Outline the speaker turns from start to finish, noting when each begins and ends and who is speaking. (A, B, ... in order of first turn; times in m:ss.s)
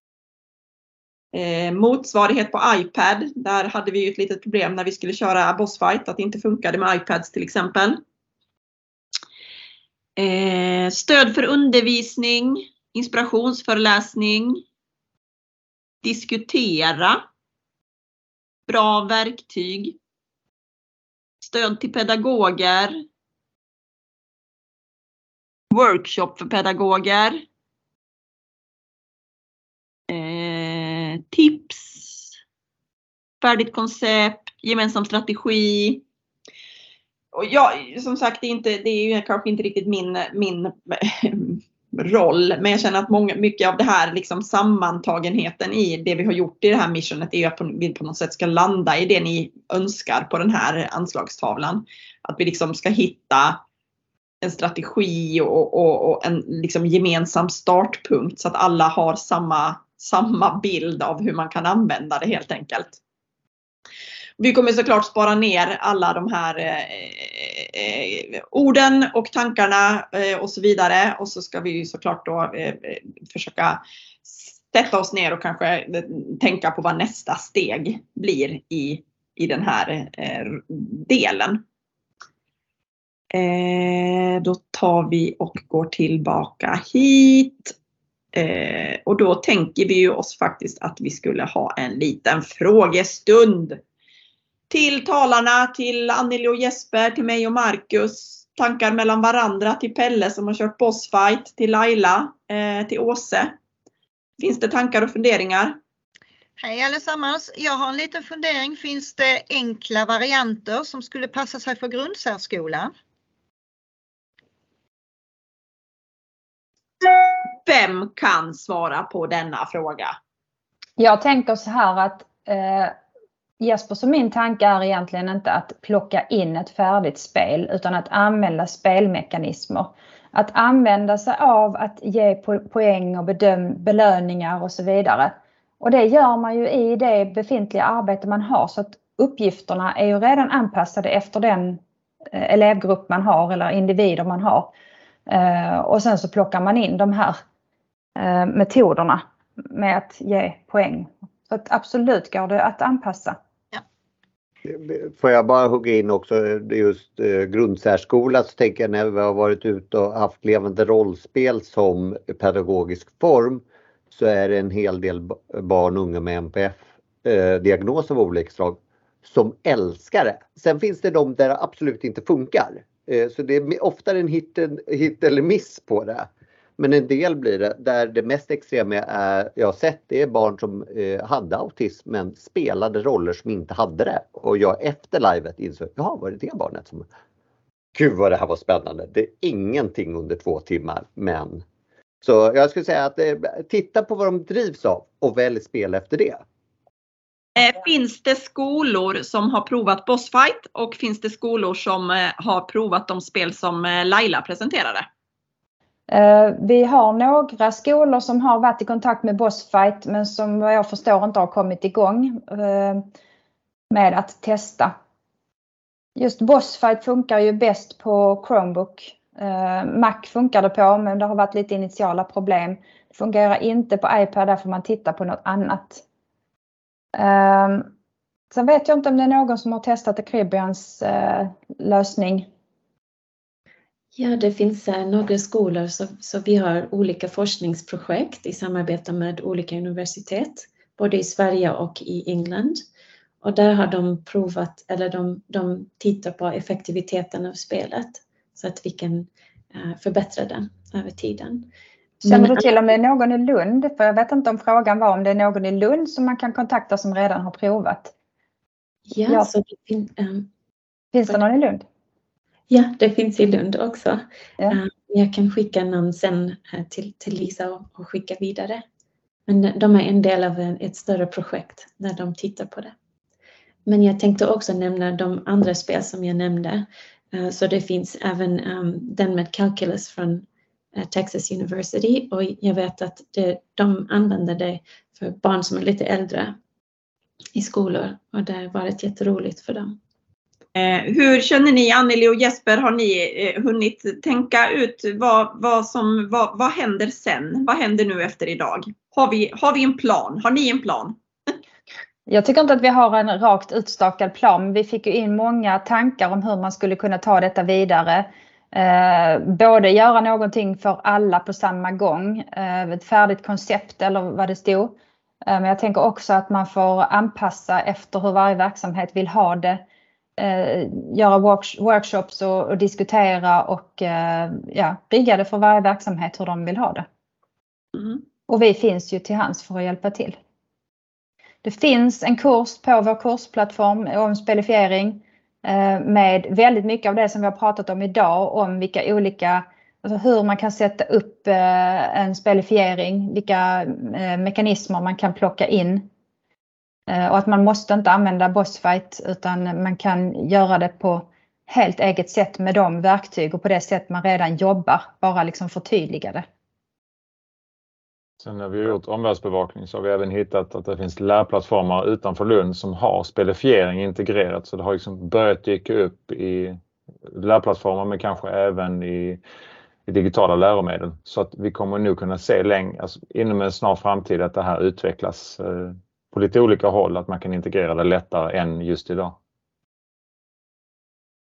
0:01.3-0:08.0 A
0:10.2-0:14.6 A
0:16.0-0:17.2 A
0:18.7-0:20.0 A
0:21.4-0:22.9 A
0:25.7-0:27.4 A
0:30.1-0:32.3 A
0:33.4-0:36.0 A
0:37.3-0:53.6 A
0:54.4-1:03.0 A
1:04.4-1:21.6 A
1:23.3-1:27.7 A
1:28.4-1:33.8 A
1:34.7-1:43.5 A
1:44.4-1:45.8 A
1:46.6-1:52.9 B
1:57.3-2:00.1 A
2:01.0-2:02.9 C
2:03.6-2:21.8 C
2:22.3-2:24.7 C
2:25.3-2:27.4 C
2:28.2-2:33.4 C
2:34.7-3:07.1 D
3:08.0-3:11.6 D
3:12.2-3:16.4 D
3:17.6-3:25.1 A
3:26.1-3:33.0 C
3:33.9-3:34.9 C
3:36.2-3:46.0 C
3:47.2-3:47.9 C
3:48.5-3:52.5 C
3:54.2-4:02.8 E
4:03.4-4:11.7 E
4:12.2-4:12.7 E
4:12.2-4:18.1 C
4:19.1-4:20.5 E
4:21.1-4:21.8 C
4:22.7-4:28.8 E
4:29.5-4:32.9 E
4:33.9-4:46.5 E
4:47.6-4:50.0 E
4:50.8-5:01.2 A
5:02.3-5:14.9 C
5:15.5-5:19.8 C
5:20.4-5:27.0 C
5:28.5-5:30.4 C
5:31.6-5:46.1 C
5:47.1-5:56.4 C
5:58.4-6:09.4 F
6:10.1-6:19.4 F